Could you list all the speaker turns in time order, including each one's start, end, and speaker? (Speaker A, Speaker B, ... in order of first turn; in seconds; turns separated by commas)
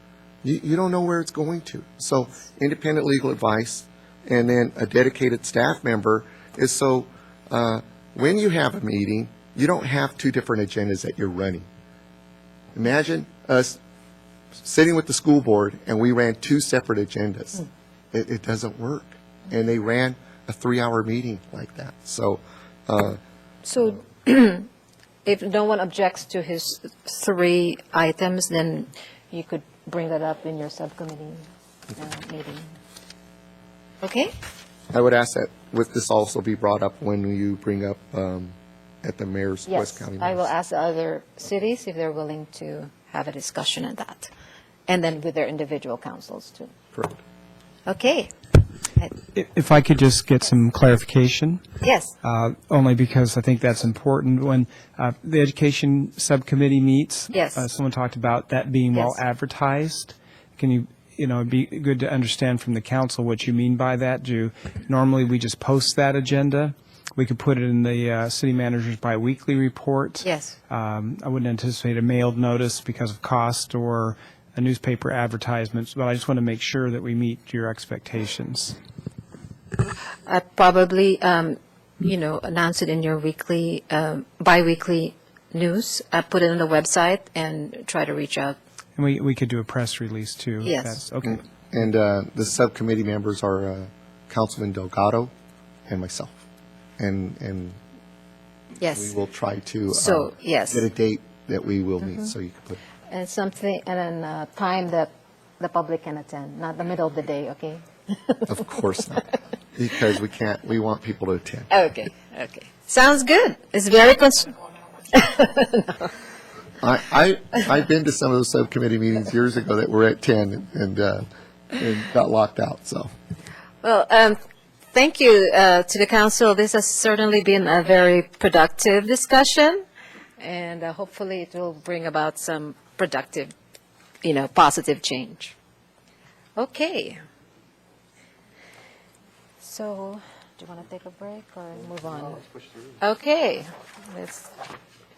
Speaker A: 0.4-11.7, Speaker A: 12.8-13.8, Speaker A: 14.6-23.2, Speaker B: 23.6-24.7, Speaker B: 25.2-32.7, Speaker B: 34.0-34.3, Speaker A: 34.9-40.5, Speaker B: 39.7-44.3, Speaker B: 44.9-46.7, Speaker B: 47.9-48.3, Speaker C: 49.4-51.6, Speaker B: 51.8-52.1, Speaker C: 52.2-78.8, Speaker B: 57.3-57.6, Speaker B: 58.9-59.2, Speaker B: 70.2-70.6, Speaker B: 80.3-88.6, Speaker C: 89.0-91.5, Speaker B: 90.6-91.0, Speaker A: 91.2-95.3, Speaker A: 95.9-96.4, Speaker A: 97.0-97.8, Speaker B: 98.8-99.1, Speaker A: 98.9-102.8, Speaker B: 99.9-100.8, Speaker B: 102.0-102.3, Speaker B: 103.1-108.5, Speaker A: 108.5-111.7, Speaker B: 111.7-114.5, Speaker B: 115.1-116.1, Speaker A: 116.8-123.1, Speaker B: 123.8-124.4, Speaker B: 124.9-129.8, Speaker B: 130.4-133.5, Speaker B: 134.2-135.6, Speaker B: 136.6-137.2, Speaker B: 139.6-142.5, Speaker B: 143.0-144.5